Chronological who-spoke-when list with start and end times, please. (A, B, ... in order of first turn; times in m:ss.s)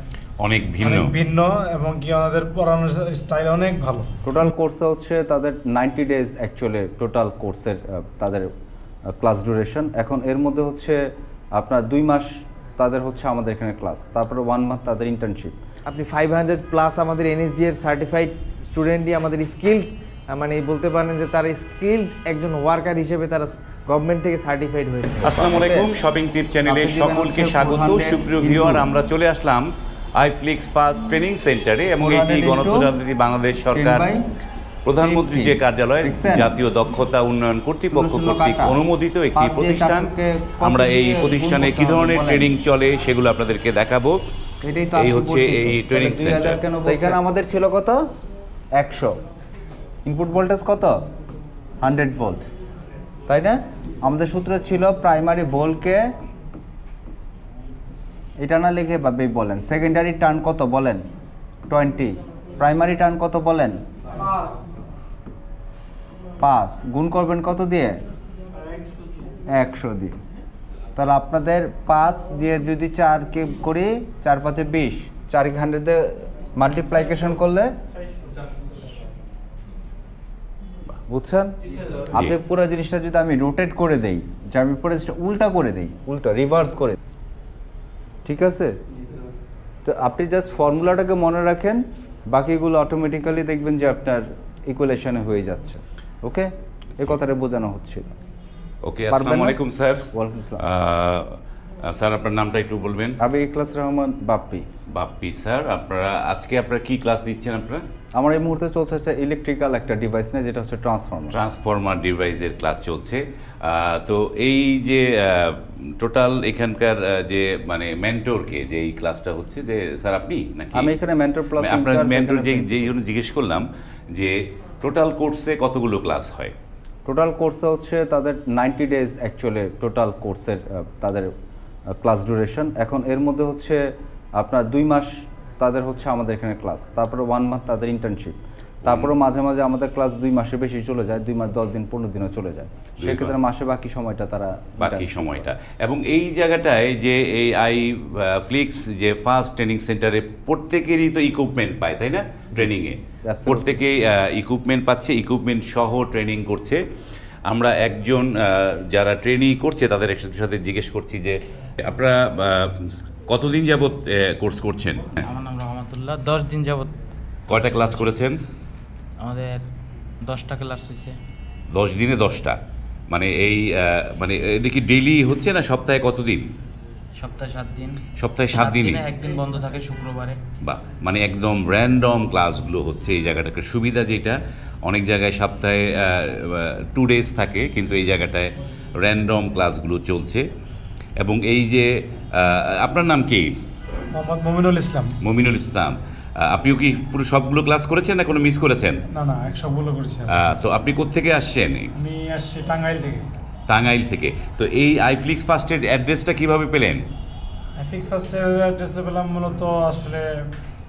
0:00.4-0:01.1 A
0:00.8-0:04.1 B
0:04.2-0:08.5 C
0:09.1-0:15.6 C
0:15.9-0:25.3 D
0:25.2-0:34.1 A
0:25.4-0:25.9 C
0:26.6-0:28.9 C
0:32.0-0:32.9 C
0:33.7-0:34.2 C
0:34.8-0:44.2 A
0:35.0-0:36.6 C
0:37.9-0:38.8 C
0:39.4-0:42.5 C
0:44.6-0:48.0 C
0:45.0-0:46.6 A
0:46.9-0:47.2 D
0:48.8-0:49.2 C
0:50.0-0:51.0 C
0:51.8-0:52.5 C
0:53.3-0:56.1 C
0:58.4-1:01.1 C
1:01.7-1:03.8 C
1:06.4-1:08.0 C
1:09.5-1:10.2 C
1:11.0-1:17.7 C
1:21.0-1:21.6 C
1:22.1-1:27.0 C
1:28.2-1:28.8 C
1:29.8-1:38.1 C
1:38.8-1:40.1 A
1:39.1-1:40.6 C
1:40.6-1:43.2 A
1:43.2-1:44.7 C
1:44.9-1:47.8 A
1:48.2-1:51.4 C
1:51.3-2:01.0 A
2:00.7-2:02.9 C
2:01.6-2:06.5 A
2:07.1-2:11.3 C
2:12.0-2:13.8 C
2:14.4-2:25.1 C
2:18.8-2:19.1 A
2:23.0-2:23.4 A
2:24.8-2:36.8 A
2:33.2-2:33.8 C
2:37.5-2:45.3 A
2:45.2-2:46.9 E
2:47.5-2:48.4 A
2:47.5-2:48.1 E
2:49.2-2:49.6 E
2:50.2-2:51.2 E
2:51.7-2:52.6 A
2:53.1-2:56.5 A
2:57.2-3:00.4 E
2:58.2-2:59.1 A
3:00.6-3:10.5 A
3:11.2-3:13.5 A
3:14.1-3:15.2 B
3:15.2-3:19.0 A
3:19.1-3:20.4 B
3:20.3-3:21.9 A
3:21.9-3:23.3 B
3:23.7-3:27.0 A
3:27.8-3:30.5 B